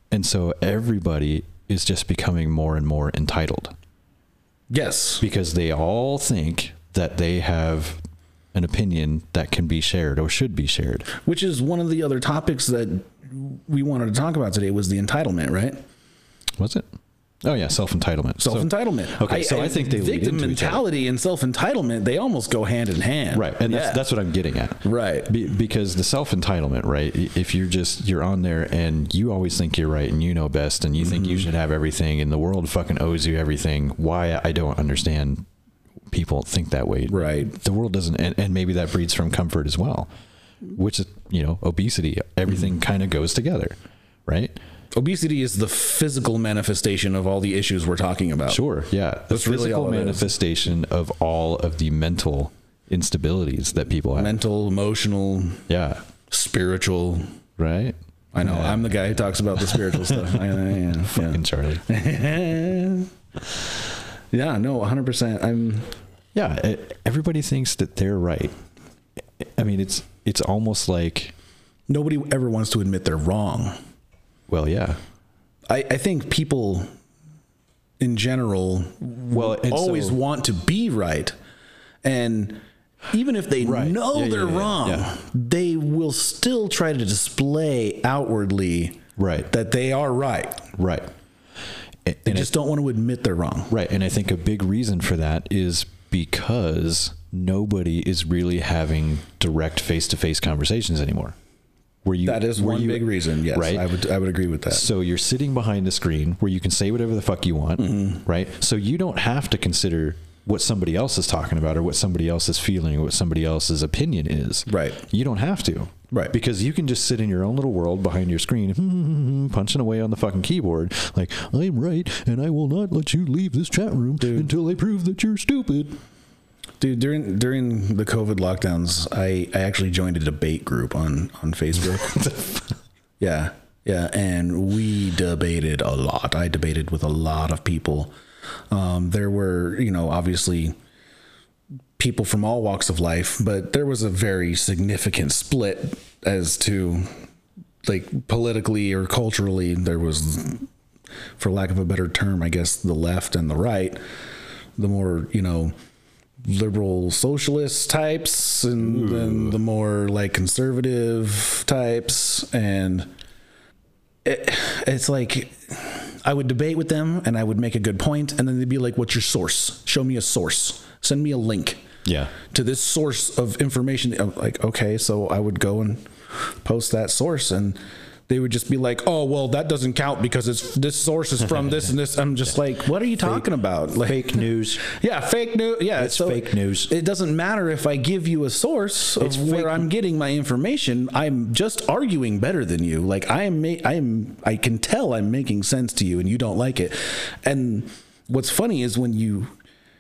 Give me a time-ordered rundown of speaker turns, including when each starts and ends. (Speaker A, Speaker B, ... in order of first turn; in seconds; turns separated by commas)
Speaker A: 0.1-3.7, Speaker B: 4.7-5.2, Speaker A: 5.2-8.0, Speaker A: 8.5-11.1, Speaker B: 11.2-15.8, Speaker A: 16.6-16.9, Speaker A: 17.4-20.8, Speaker B: 18.4-24.0, Speaker A: 23.3-35.5, Speaker B: 24.8-25.3, Speaker B: 31.0-31.5, Speaker A: 36.1-40.1, Speaker B: 37.1-37.5, Speaker A: 40.7-44.6, Speaker B: 44.9-48.6, Speaker A: 48.5-54.4, Speaker B: 49.3-50.3, Speaker B: 54.1-55.6, Speaker A: 55.7-56.0, Speaker B: 56.3-57.3, Speaker A: 57.6-61.8, Speaker B: 58.3-63.1, Speaker B: 64.3-65.9, Speaker A: 66.3-68.5, Speaker A: 69.4-71.3, Speaker B: 71.9-73.8, Speaker A: 74.5-75.0, Speaker B: 75.7-76.9, Speaker B: 78.0-81.3, Speaker A: 79.3-80.2, Speaker B: 82.0-90.7, Speaker A: 83.6-85.1, Speaker A: 89.2-89.5, Speaker A: 90.7-91.1, Speaker A: 92.0-92.5, Speaker B: 92.2-93.7, Speaker A: 93.7-101.3, Speaker A: 102.0-103.8, Speaker B: 102.2-104.8, Speaker A: 104.7-126.0, Speaker B: 107.8-108.2, Speaker B: 114.7-115.0, Speaker B: 124.2-124.5, Speaker B: 126.8-132.3, Speaker A: 131.9-132.6, Speaker B: 133.2-138.1, Speaker B: 138.7-140.8, Speaker B: 142.0-147.1, Speaker B: 147.8-150.7, Speaker B: 151.4-154.0, Speaker B: 154.8-155.7, Speaker B: 156.4-163.1, Speaker A: 158.8-159.6, Speaker B: 164.2-171.8, Speaker A: 172.0-172.3, Speaker B: 172.5-199.5, Speaker A: 183.2-183.5, Speaker A: 184.0-184.8, Speaker A: 186.0-186.9, Speaker A: 189.2-189.9